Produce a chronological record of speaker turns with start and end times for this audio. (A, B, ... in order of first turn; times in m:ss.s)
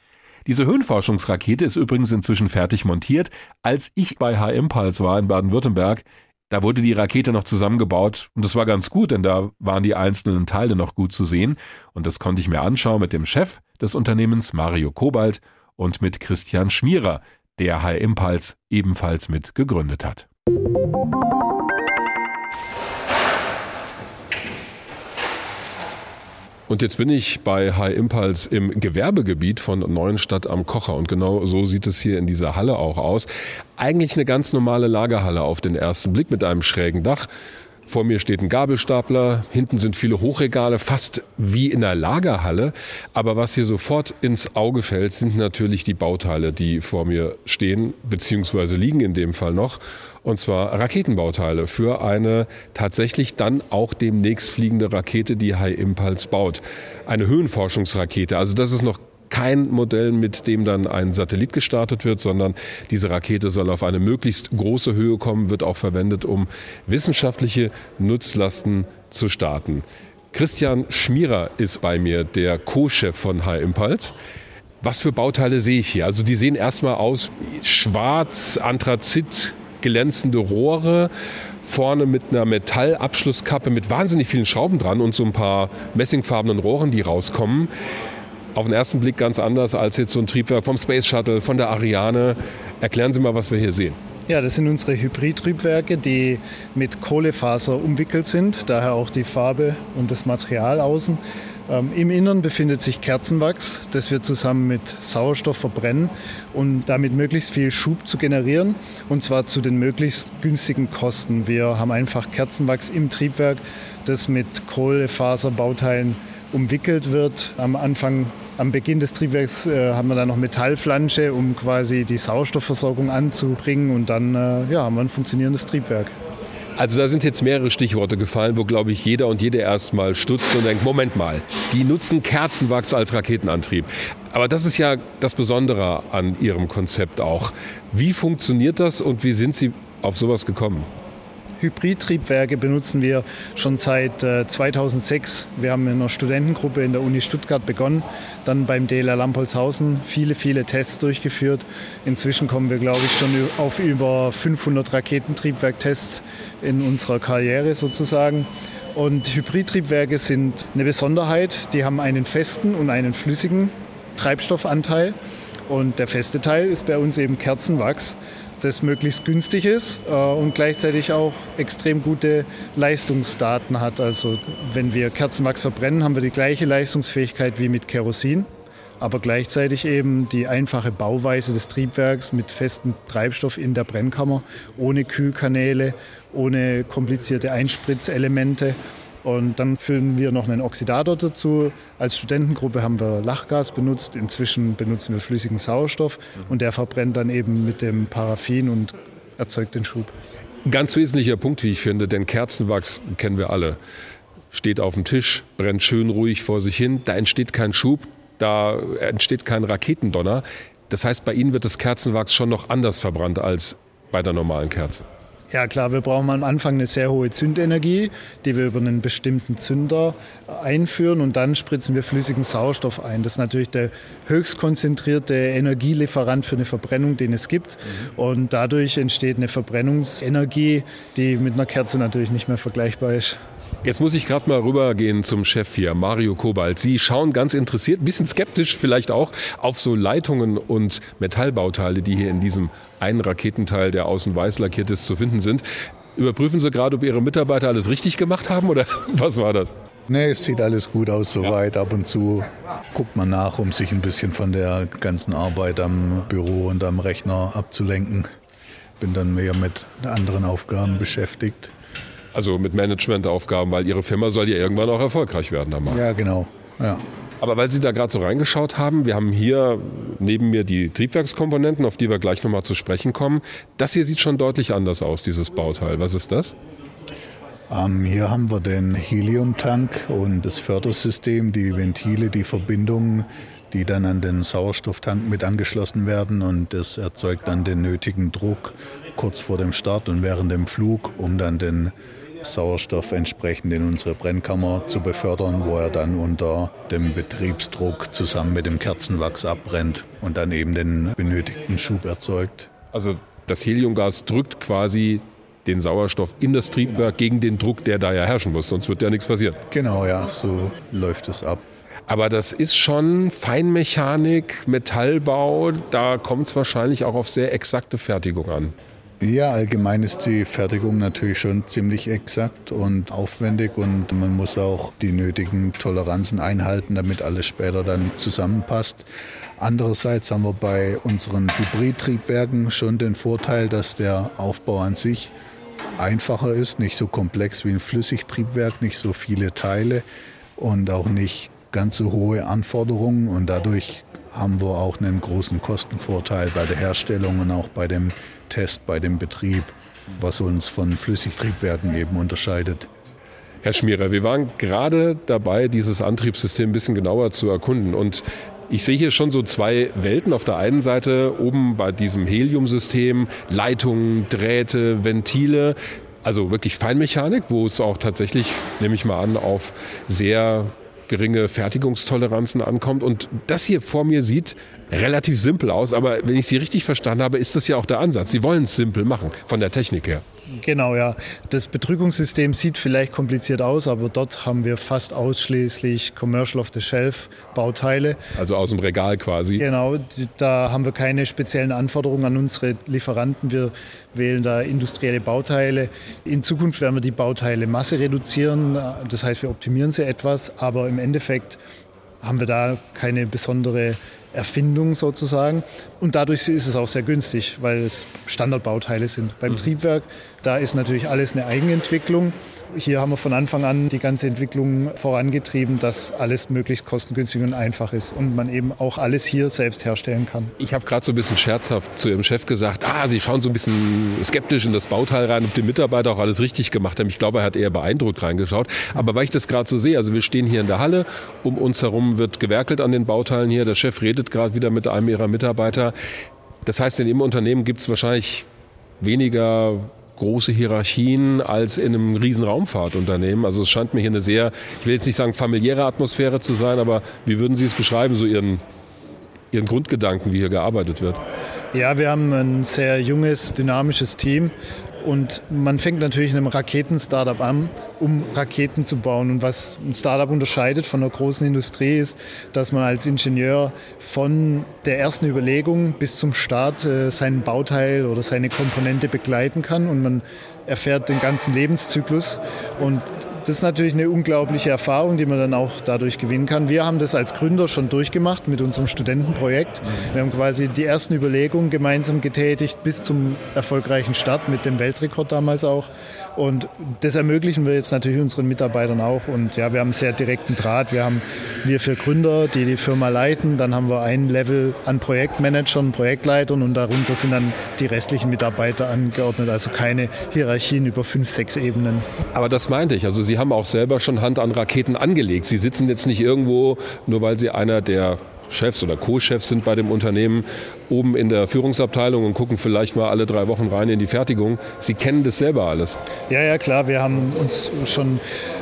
0:00.5-0:20.3 A
0:26.7-0:37.3 A
0:37.9-1:14.1 A
1:14.8-1:21.1 A
1:21.6-1:27.7 A
1:28.6-1:34.0 A
1:34.3-2:06.1 B
2:06.8-2:20.9 A
2:21.6-2:45.2 B
2:45.7-2:58.5 B
2:59.0-3:20.1 B
3:20.6-3:23.8 A
3:24.5-3:35.1 A
3:35.5-3:53.4 B
3:53.8-4:09.7 A
4:10.1-4:18.3 C
4:19.0-4:21.7 C
4:22.3-4:26.0 A
4:25.9-4:27.0 C
4:27.4-4:36.6 A
4:37.7-5:02.7 C
5:02.9-5:09.6 A
5:09.7-5:11.6 C
5:12.1-5:18.8 A
5:19.2-5:29.0 C
5:29.6-5:35.3 C
5:36.0-5:40.0 C
5:40.6-5:52.9 C
5:53.6-6:20.2 A
6:20.6-6:28.2 B
6:28.4-6:29.6 A
6:29.6-6:41.6 B
6:42.2-7:00.5 B
7:00.6-7:15.9 A
7:16.6-7:18.5 A
7:19.0-7:28.6 A
7:29.5-7:31.2 A
7:31.7-8:22.1 B
8:22.3-8:36.0 A
8:36.3-8:38.2 B